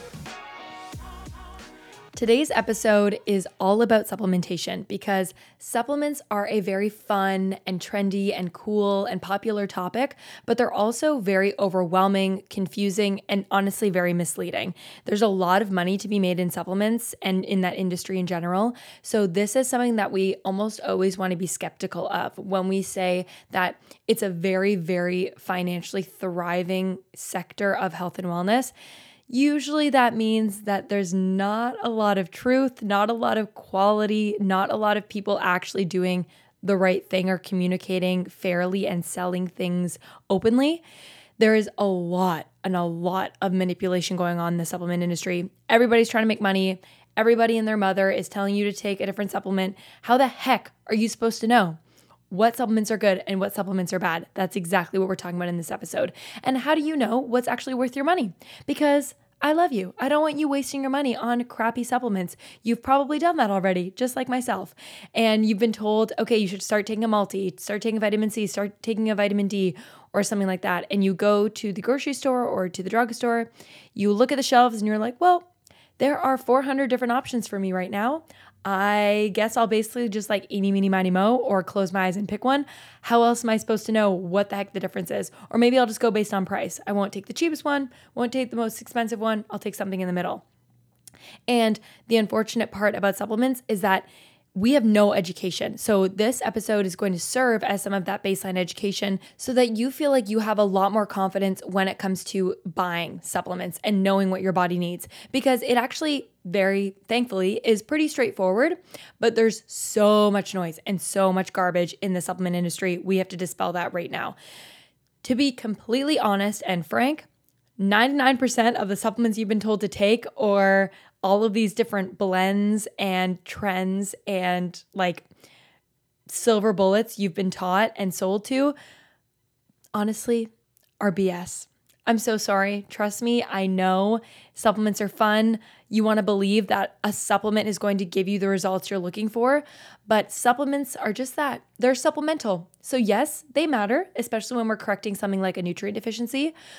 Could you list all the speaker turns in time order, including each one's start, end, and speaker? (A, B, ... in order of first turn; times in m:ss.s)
0:02.1-0:28.7 A
0:29.3-0:40.8 A
0:41.4-0:51.8 A
0:52.3-1:15.4 A
1:16.0-1:30.4 A
1:31.5-1:54.4 A
1:55.2-1:57.3 A
1:57.8-2:05.2 A
2:06.3-2:08.8 A
2:09.9-2:26.5 A